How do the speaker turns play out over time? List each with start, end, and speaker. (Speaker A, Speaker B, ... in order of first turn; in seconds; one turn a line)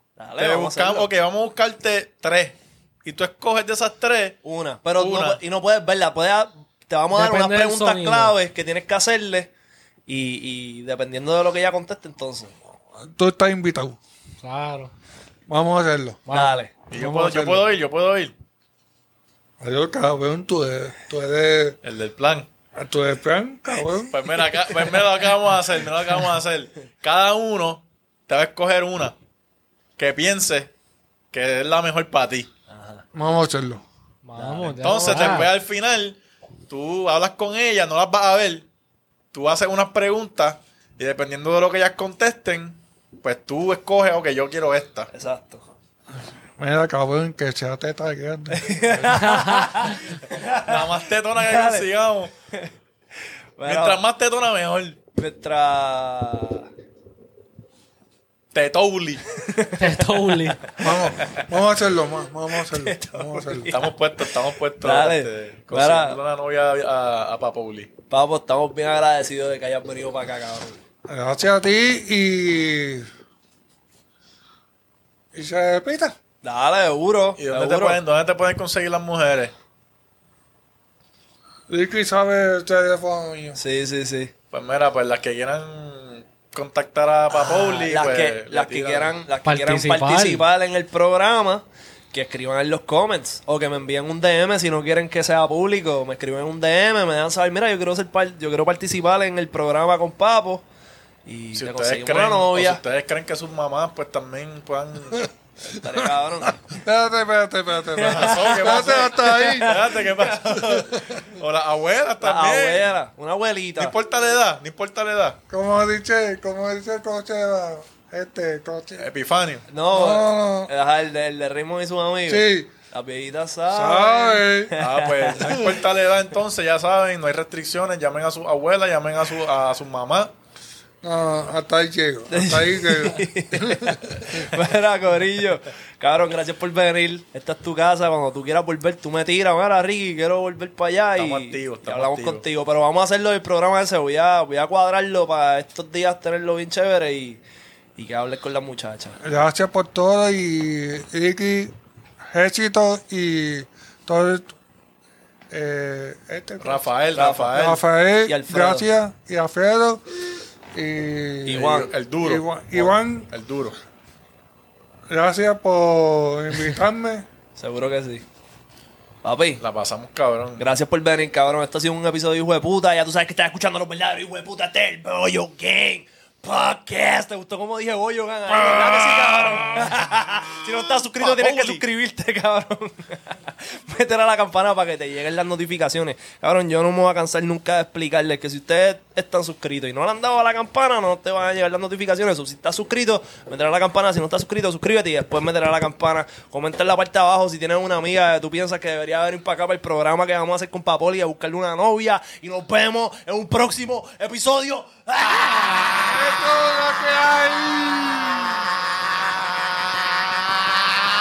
Speaker A: 0.2-1.1
Speaker B: 0.4-4.4
Speaker A: 4.4-9.5
Speaker B: 5.0-5.4
Speaker C: 7.1-8.3
Speaker A: 10.1-12.5
Speaker D: 13.0-14.0
Speaker C: 14.4-14.9
Speaker D: 15.5-16.2
Speaker C: 16.3-16.6
Speaker A: 16.3-16.7
Speaker B: 16.9-18.3
Speaker D: 16.9-17.6
Speaker D: 19.6-21.8
Speaker B: 21.8-22.5
Speaker D: 22.8-24.2
Speaker B: 24.1-29.1
Speaker B: 30.0-30.7
Speaker B: 31.3-32.5
Speaker A: 32.7-33.0
Speaker D: 33.1-33.8
Speaker C: 34.2-35.5
Speaker A: 34.4-35.4
Speaker B: 34.8-38.7
Speaker B: 39.3-45.1
Speaker A: 45.1-45.7
Speaker D: 46.6-48.9
Speaker A: 48.5-51.9
Speaker C: 49.1-50.0
Speaker B: 50.6-52.3
Speaker A: 53.6-54.0
Speaker B: 53.6-55.0
Speaker A: 55.1-56.7
Speaker B: 58.5-59.3
Speaker A: 59.4-61.5
Speaker C: 59.8-60.7
Speaker D: 60.8-63.7
Speaker A: 62.5-66.2
Speaker B: 63.7-67.9
Speaker A: 68.1-70.8
Speaker D: 71.1-73.1
Speaker D: 75.3-76.2
Speaker A: 76.4-78.0
Speaker B: 77.4-79.5
Speaker D: 81.7-83.6
Speaker A: 83.6-84.3
Speaker B: 84.5-89.2
Speaker A: 87.3-100.6
Speaker C: 89.4-90.4
Speaker A: 101.2-102.8
Speaker B: 101.5-105.2
Speaker A: 105.6-106.6
Speaker D: 105.8-106.0
Speaker D: 106.7-109.7
Speaker A: 107.9-110.6
Speaker B: 108.0-112.9
Speaker D: 110.7-111.2
Speaker A: 112.2-113.9
Speaker B: 113.8-115.4
Speaker D: 115.5-119.1
Speaker B: 119.0-119.6
Speaker A: 119.7-125.8
Speaker D: 119.9-120.7
Speaker D: 122.3-122.7
Speaker D: 123.7-124.7
Speaker B: 124.8-130.3
Speaker D: 131.0-134.5
Speaker A: 132.3-147.4
Speaker B: 141.2-142.4
Speaker A: 147.9-149.2
Speaker D: 149.2-151.7
Speaker D: 152.3-154.5
Speaker D: 155.5-156.8
Speaker B: 156.6-157.8
Speaker A: 157.1-158.9
Speaker D: 157.5-160.1
Speaker D: 160.7-163.3
Speaker A: 161.5-161.9
Speaker B: 161.6-163.8
Speaker D: 165.1-167.2
Speaker A: 167.6-168.2
Speaker A: 169.2-169.6
Speaker B: 169.6-170.7
Speaker A: 170.6-206.3
Speaker B: 181.2-181.8
Speaker D: 206.0-208.6